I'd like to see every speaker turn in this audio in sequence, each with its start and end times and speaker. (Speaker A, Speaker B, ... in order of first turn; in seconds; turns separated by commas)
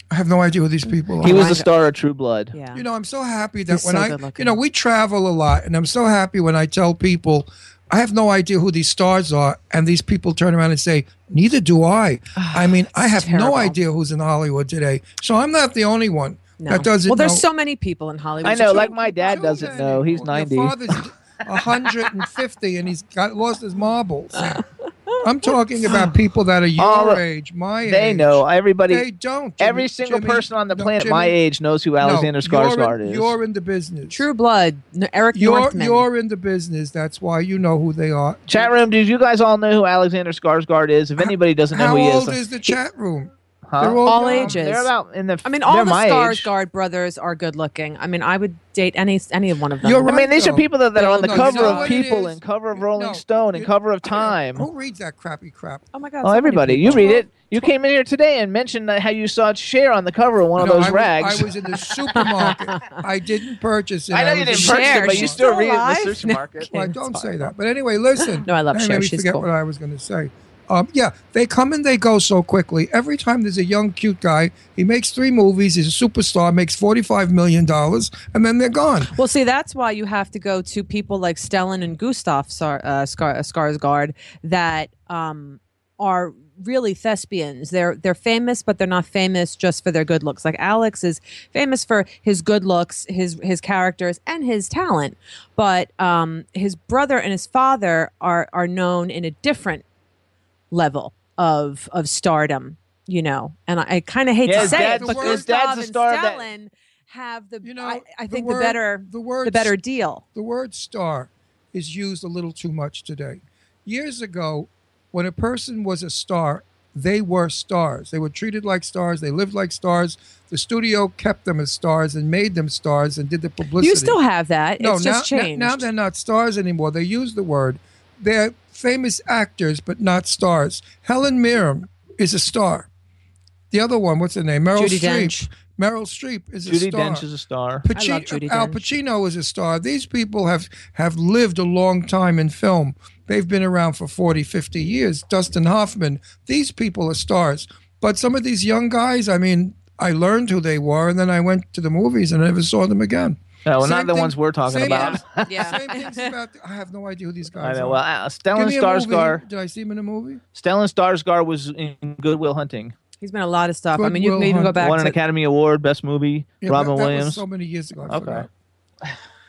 Speaker A: 0.1-1.6, Speaker B: 1.2-1.7, Speaker C: 1.2-2.5, Speaker B: 2.5-2.8, Speaker A: 2.7-17.5, Speaker B: 3.7-4.6, Speaker B: 12.4-13.8, Speaker B: 16.6-20.0, Speaker C: 18.4-20.8, Speaker A: 18.4-24.6, Speaker B: 24.4-26.1, Speaker A: 25.2-31.4, Speaker C: 26.8-27.2, Speaker C: 27.9-29.1, Speaker C: 29.6-33.4, Speaker A: 32.0-34.2, Speaker B: 34.1-36.1, Speaker A: 35.3-38.7, Speaker C: 38.5-42.4, Speaker A: 41.2-44.6, Speaker C: 43.7-46.5, Speaker B: 44.0-44.9, Speaker B: 45.4-50.2, Speaker A: 49.8-55.9, Speaker C: 50.1-54.7, Speaker B: 51.0-52.0, Speaker B: 55.9-57.7, Speaker C: 56.2-61.5, Speaker A: 60.6-65.4, Speaker B: 62.1-63.0, Speaker C: 64.1-66.7, Speaker B: 64.4-67.5, Speaker A: 66.7-79.1, Speaker B: 68.2-69.5, Speaker B: 79.1-99.8, Speaker B: 100.7-110.2, Speaker C: 104.5-106.5, Speaker A: 104.5-105.5, Speaker A: 107.6-109.8, Speaker A: 110.3-124.2, Speaker B: 123.8-125.9, Speaker A: 124.8-132.9, Speaker A: 133.7-137.3, Speaker B: 134.7-135.5, Speaker C: 136.7-137.9, Speaker A: 137.8-160.4, Speaker B: 137.9-138.9, Speaker C: 153.7-155.8, Speaker B: 154.8-156.3, Speaker C: 157.6-159.4, Speaker C: 160.6-162.9, Speaker B: 163.2-165.2, Speaker A: 163.9-165.0, Speaker C: 164.8-167.4, Speaker A: 166.6-168.5, Speaker C: 168.1-168.5